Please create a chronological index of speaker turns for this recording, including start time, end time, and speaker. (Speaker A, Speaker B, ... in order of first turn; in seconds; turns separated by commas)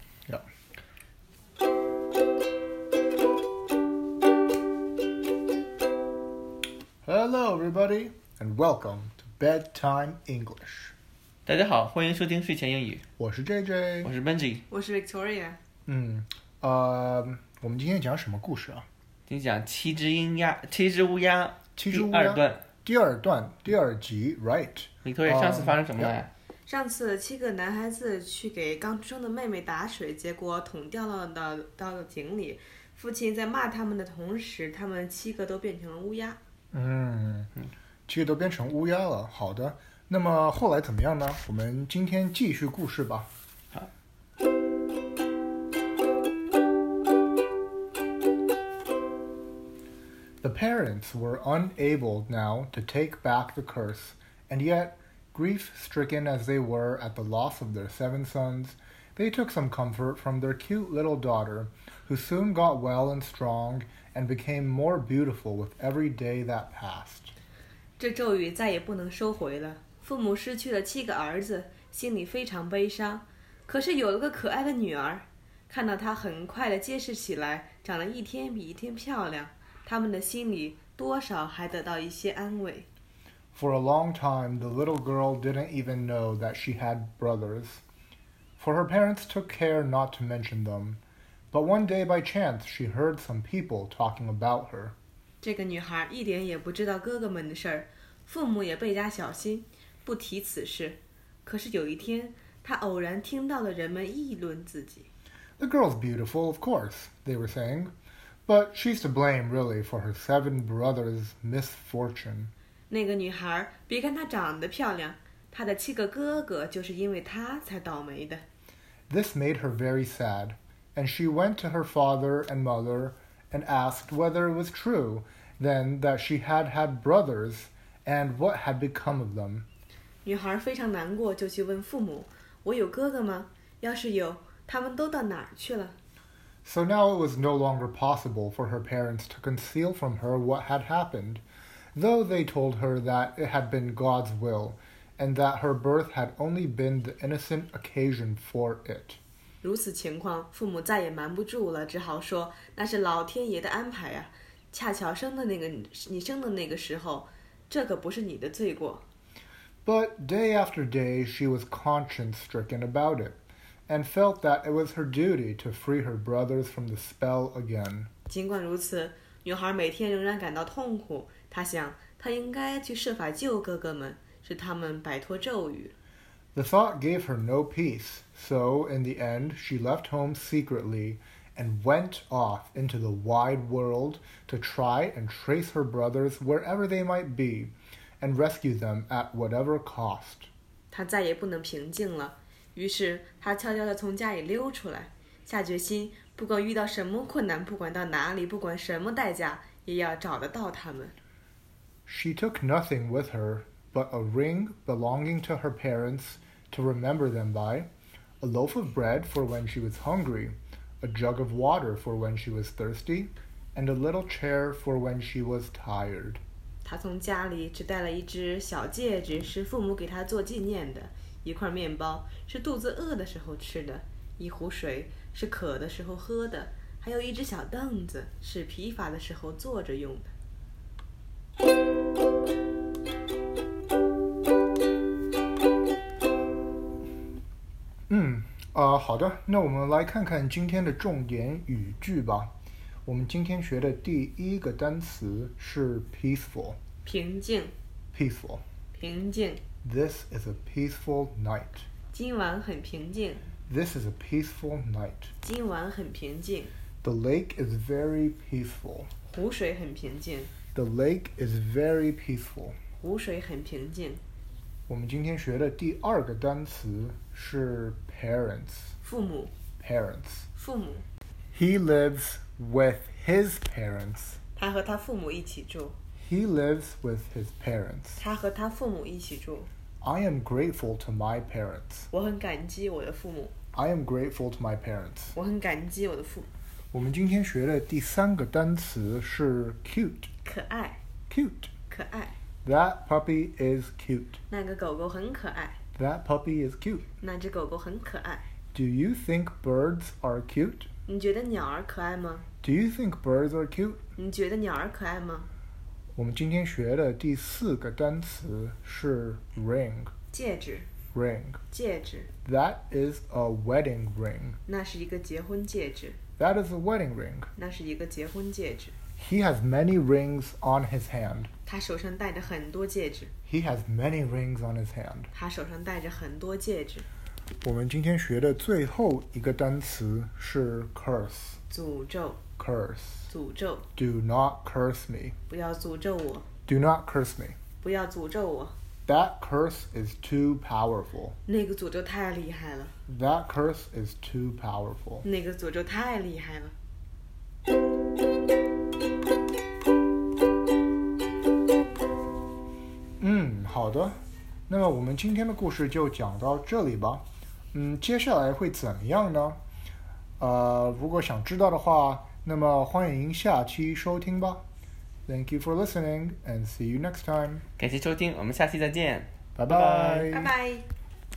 Speaker A: 7.0-10.9, Speaker B: 11.5-13.0, Speaker A: 13.2-14.1, Speaker B: 14.0-14.6, Speaker C: 14.7-15.6, Speaker A: 15.9-18.9, Speaker B: 19.3-22.6, Speaker A: 21.8-26.2, Speaker B: 25.1-26.3, Speaker C: 26.7-36.4, Speaker A: 36.7-37.5, Speaker A: 38.1-43.3, Speaker A: 50.4-67.3, Speaker C: 68.0-82.9, Speaker A: 83.5-87.8, Speaker A: 88.6-95.0, Speaker C: 95.4-105.1, Speaker A: 105.6-107.9, Speaker A: 108.5-112.5, Speaker C: 112.9-118.4, Speaker A: 119.1-129.7, Speaker C: 130.2-136.0, Speaker A: 136.7-141.4, Speaker A: 141.9-149.2, Speaker C: 149.6-159.0, Speaker A: 159.9-168.1, Speaker C: 168.3-175.9, Speaker A: 176.6-190.5, Speaker C: 190.9-201.2, Speaker A: 202.1-207.9, Speaker A: 208.4-216.4, Speaker C: 216.8-230.3, Speaker A: 238.1-242.5, Speaker A: 243.1-246.8, Speaker C: 247.0-247.7, Speaker A: 248.1-248.6, Speaker C: 248.9-249.6, Speaker A: 249.8-251.9, Speaker C: 252.1-253.5, Speaker A: 253.7-255.3, Speaker C: 255.4-256.7, Speaker A: 257.0-259.1, Speaker C: 259.3-260.5, Speaker A: 260.7-262.8, Speaker C: 263.0-264.2, Speaker A: 264.9-268.9, Speaker C: 269.0-269.5, Speaker A: 269.8-270.5, Speaker C: 270.6-271.1, Speaker A: 271.5-274.4, Speaker C: 274.6-276.0, Speaker A: 276.2-278.2, Speaker C: 278.2-279.7, Speaker A: 280.0-282.1, Speaker C: 282.1-283.5, Speaker A: 283.7-285.4, Speaker C: 285.4-286.5, Speaker A: 286.9-290.3, Speaker C: 290.4-291.0, Speaker A: 291.3-291.7, Speaker C: 291.9-292.4, Speaker A: 292.6-294.4, Speaker C: 294.5-295.8, Speaker A: 296.0-297.1, Speaker C: 297.2-298.4, Speaker A: 298.7-300.9, Speaker C: 301.1-302.4, Speaker A: 302.6-304.0, Speaker C: 304.2-305.5, Speaker A: 306.2-310.1, Speaker C: 310.3-310.9, Speaker A: 311.1-311.6, Speaker C: 311.7-312.3, Speaker A: 312.4-314.6, Speaker C: 314.7-316.2, Speaker A: 316.4-317.5, Speaker C: 317.6-319.0, Speaker A: 319.2-321.5, Speaker C: 321.7-323.3, Speaker A: 323.5-325.3, Speaker C: 325.3-327.1, Speaker A: 327.6-331.6, Speaker C: 331.7-332.4, Speaker A: 332.6-333.3, Speaker C: 333.3-333.9, Speaker A: 334.0-335.4, Speaker C: 335.5-336.5, Speaker A: 336.7-337.6, Speaker C: 337.8-338.8, Speaker A: 339.1-341.4, Speaker C: 341.5-342.9, Speaker A: 343.1-345.3, Speaker C: 345.2-346.7, Speaker A: 353.2-359.6, Speaker A: 360.4-364.6, Speaker A: 365.3-367.6, Speaker B: 367.8-370.3, Speaker A: 369.6-370.5, Speaker C: 370.3-370.9